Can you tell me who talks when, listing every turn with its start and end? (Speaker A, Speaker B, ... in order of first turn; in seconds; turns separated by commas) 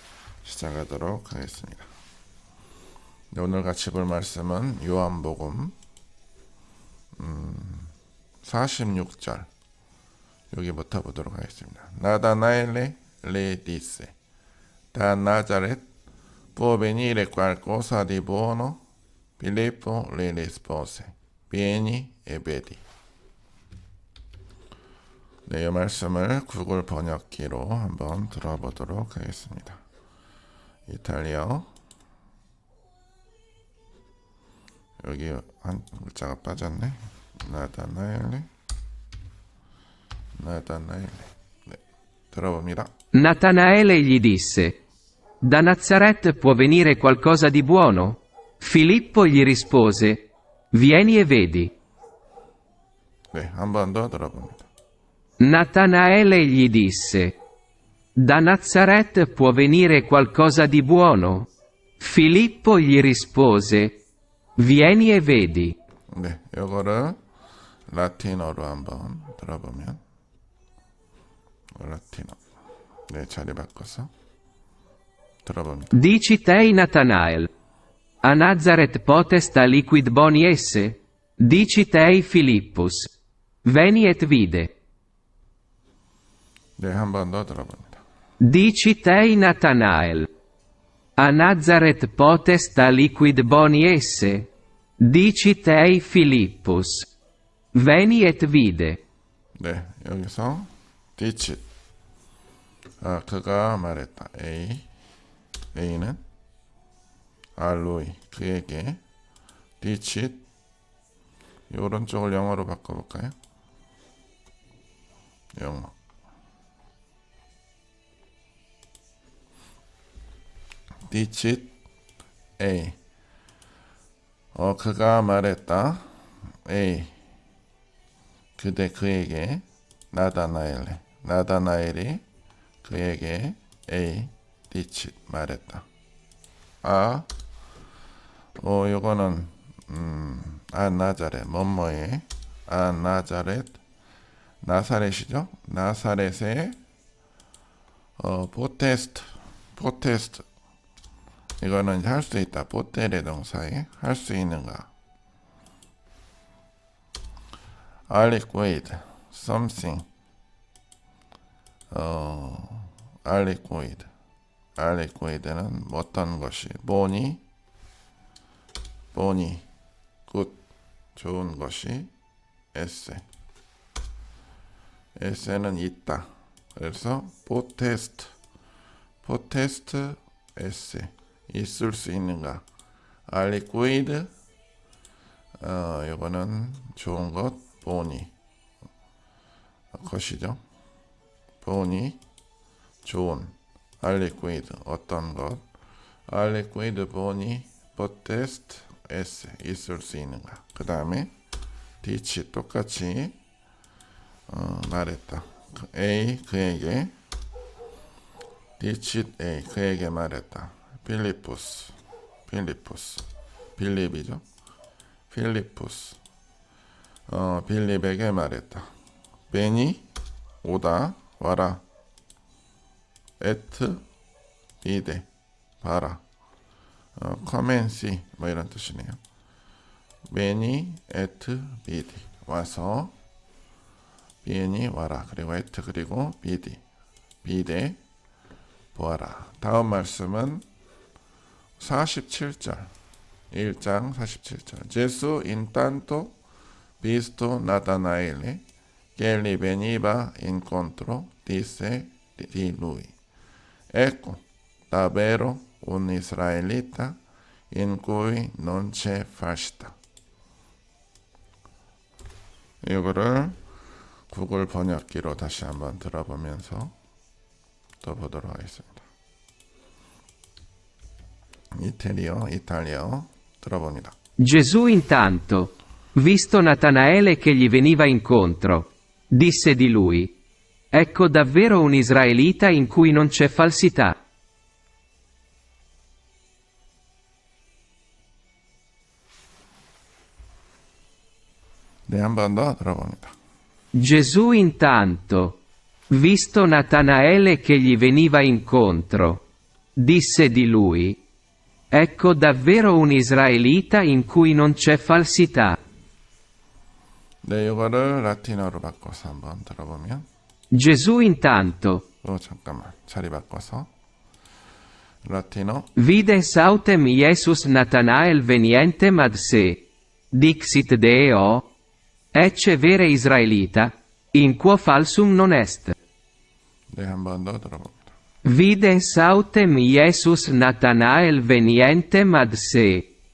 Speaker A: 0.4-1.9, Speaker A: 3.3-5.8, Speaker A: 7.2-9.5, Speaker A: 10.5-14.1, Speaker A: 14.9-15.8, Speaker A: 16.6-18.8, Speaker A: 19.4-22.8, Speaker A: 25.5-29.8, Speaker A: 30.9-31.7, Speaker A: 35.0-38.5, Speaker A: 40.4-41.8, Speaker A: 42.3-42.9, Speaker B: 43.1-44.8, Speaker B: 45.4-51.7, Speaker A: 53.3-54.7, Speaker B: 55.4-57.4, Speaker B: 58.2-61.5, Speaker B: 62.0-64.0, Speaker B: 64.6-65.8, Speaker A: 66.1-67.2, Speaker A: 67.9-70.0, Speaker A: 71.8-72.4, Speaker A: 73.1-74.1, Speaker A: 75.4-76.0, Speaker B: 75.9-77.5, Speaker B: 78.2-83.1, Speaker B: 83.6-84.7, Speaker A: 86.8-88.0, Speaker B: 88.4-90.3, Speaker B: 91.2-97.1, Speaker B: 97.7-99.0, Speaker A: 99.6-101.6, Speaker A: 103.0-104.9, Speaker A: 105.7-106.2, Speaker A: 107.6-109.0, Speaker A: 109.8-110.4, Speaker A: 111.7-113.3, Speaker A: 115.6-115.9, Speaker A: 121.1-121.7, Speaker A: 122.6-123.0, Speaker A: 124.5-126.1, Speaker A: 126.7-127.2, Speaker A: 128.6-132.2, Speaker A: 132.8-135.9, Speaker A: 136.8-137.3, Speaker A: 138.6-143.8, Speaker A: 144.6-146.8, Speaker A: 148.2-150.4, Speaker A: 151.6-154.9, Speaker A: 158.1-160.1, Speaker A: 161.9-164.1, Speaker A: 164.8-167.4, Speaker A: 169.1-169.7, Speaker A: 170.3-170.6, Speaker A: 171.2-172.1, Speaker A: 172.7-173.2, Speaker A: 175.2-178.4, Speaker A: 179.2-182.6, Speaker A: 183.3-184.3, Speaker A: 185.6-188.3, Speaker A: 189.9-190.6, Speaker A: 191.6-192.2, Speaker A: 193.0-195.6, Speaker A: 196.3-201.3, Speaker A: 202.0-203.4, Speaker A: 204.5-207.1, Speaker A: 208.8-213.2, Speaker A: 213.8-214.4, Speaker A: 215.3-216.2, Speaker A: 217.3-218.9, Speaker A: 219.5-220.1, Speaker A: 220.6-221.8, Speaker A: 223.4-224.0, Speaker A: 224.8-225.3, Speaker A: 225.8-226.2, Speaker A: 227.2-229.2, Speaker A: 230.3-233.1, Speaker A: 234.4-236.8, Speaker A: 237.4-238.0, Speaker A: 238.9-240.6, Speaker A: 241.8-242.9, Speaker A: 243.5-246.4, Speaker A: 247.0-248.6, Speaker A: 249.2-253.1, Speaker A: 253.9-257.2, Speaker A: 257.7-259.9, Speaker A: 262.8-263.6, Speaker A: 264.3-266.9, Speaker A: 268.0-269.1, Speaker A: 271.8-274.1, Speaker B: 274.4-280.3, Speaker B: 280.9-284.2, Speaker A: 292.1-293.3, Speaker B: 293.9-295.6, Speaker B: 296.1-299.4, Speaker B: 300.0-301.2, Speaker B: 301.9-305.8, Speaker A: 307.4-310.3, Speaker B: 310.7-312.1, Speaker A: 312.2-313.9, Speaker A: 315.2-315.9, Speaker B: 316.0-321.7, Speaker B: 322.3-326.0, Speaker A: 326.9-328.1, Speaker B: 328.4-333.1